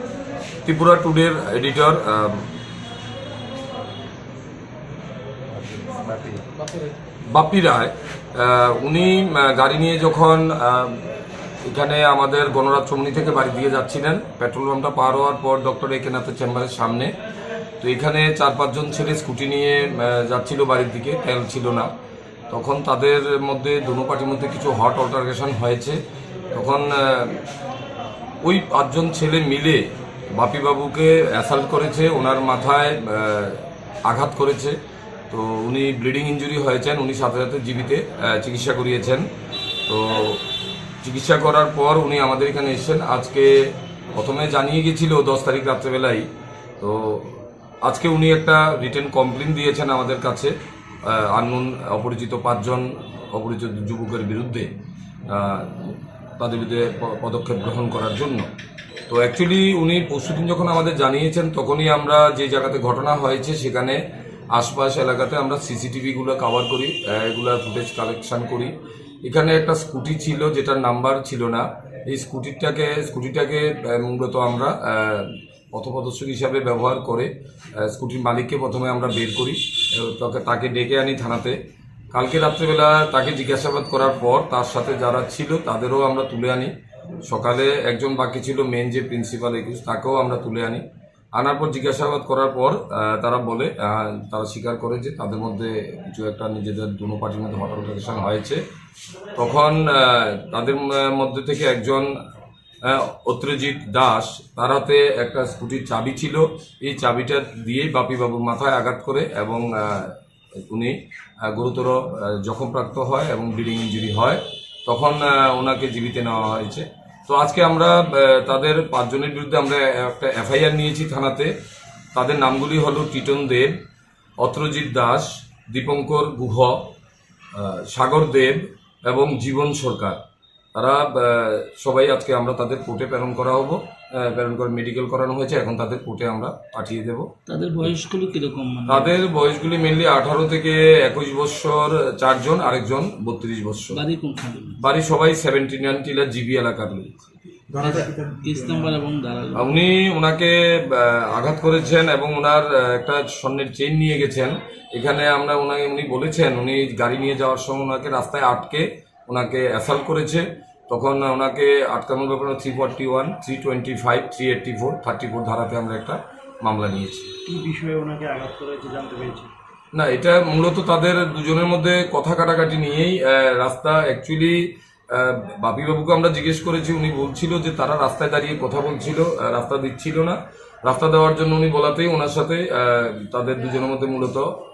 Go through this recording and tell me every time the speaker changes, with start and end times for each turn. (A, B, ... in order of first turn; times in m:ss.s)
0:00.6-0:02.5 A
0:07.3-0:11.0 A
0:11.7-0:17.1 A
0:17.8-0:21.9 A
0:22.5-0:26.0 A
0:26.5-0:27.4 A
0:28.4-0:34.8 A
0:35.3-0:39.2 A
0:39.9-0:40.4 A
0:41.0-0:46.3 A
0:46.8-0:50.5 A
0:51.0-0:54.7 A
0:55.3-0:58.5 A
0:59.1-1:04.0 A
1:04.5-1:08.7 A
1:09.2-1:21.6 A
1:22.1-1:26.7 A
1:27.3-1:30.8 A
1:31.4-1:38.6 A
1:39.4-1:42.1 A
1:42.8-1:50.2 A
1:50.7-2:01.5 A
2:02.1-2:03.8 A
2:04.4-2:06.9 A
2:07.5-2:10.2 A
2:10.8-2:17.3 A
2:17.5-2:19.2 B
2:18.9-2:24.0 A
2:23.9-2:24.8 B
2:24.8-2:27.3 A
2:27.8-2:29.8 B
2:29.5-2:47.3 A
2:47.5-2:49.5 C
2:50.0-3:04.5 A